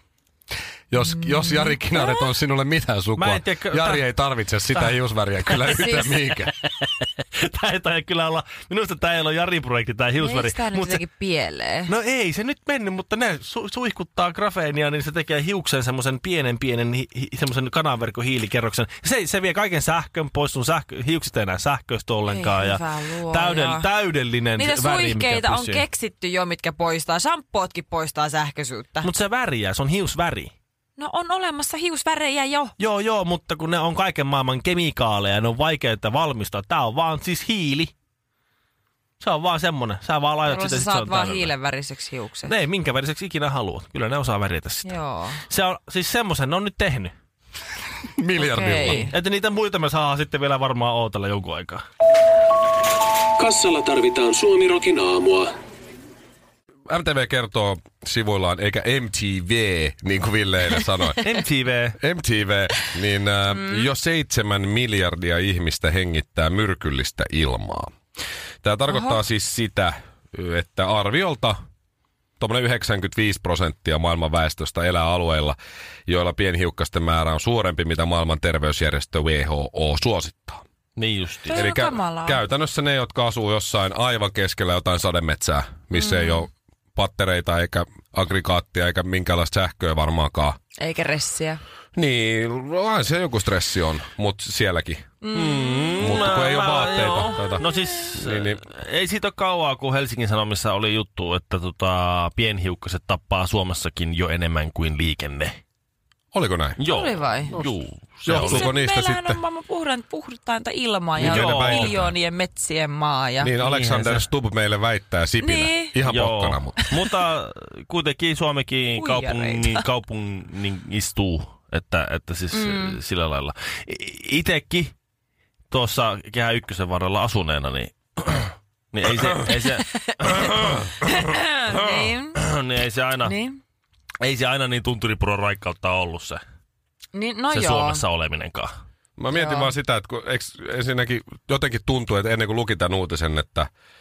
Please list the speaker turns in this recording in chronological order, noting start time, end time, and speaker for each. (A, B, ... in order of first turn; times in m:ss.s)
0:00.9-0:06.5 A
0:01.0-0:02.2 B
0:03.2-0:04.0 C
0:05.6-0:11.0 C
0:10.2-0:11.9 B
0:11.9-0:25.8 C
0:22.3-0:23.9 B
0:24.6-0:29.1 B
0:29.0-0:30.5 C
0:31.0-0:32.7 B
0:32.8-0:37.9 C
0:39.2-0:41.5 C
0:40.5-0:42.5 B
0:42.5-0:47.1 C
0:44.9-0:45.4 B
0:48.2-0:49.1 A
0:48.4-0:49.1 B
0:48.9-0:51.8 C
0:53.4-0:55.5 D
0:56.9-1:01.2 A
1:01.2-1:02.0 C
1:02.0-1:08.0 A
1:08.6-1:11.6 A
1:08.9-1:09.2 B
1:12.4-1:20.6 A
1:21.0-1:21.6 C
1:21.5-1:22.4 B
1:21.5-1:30.6 A
1:25.9-1:26.5 B
1:30.8-1:31.6 B
1:32.0-1:35.0 A
1:35.2-1:36.4 B
1:35.3-1:45.6 C
1:36.0-1:38.6 A
1:46.3-1:46.8 A
1:46.8-1:48.7 C
1:46.8-1:47.6 B
1:48.3-1:49.4 A
1:48.3-1:53.5 B
1:51.2-1:52.0 C
1:51.2-1:52.1 A
1:53.4-1:56.8 A
1:53.5-1:54.3 C
1:55.4-1:56.0 B
1:56.0-2:04.9 C
1:59.0-1:59.8 B
2:02.5-2:03.0 B
2:05.7-2:10.7 C
2:09.7-2:12.4 B
2:11.8-2:13.4 C
2:13.2-2:13.6 B
2:14.2-2:16.4 C
2:17.1-2:18.0 B
2:17.5-2:18.7 C
2:19.2-2:23.7 A
2:19.3-2:19.7 B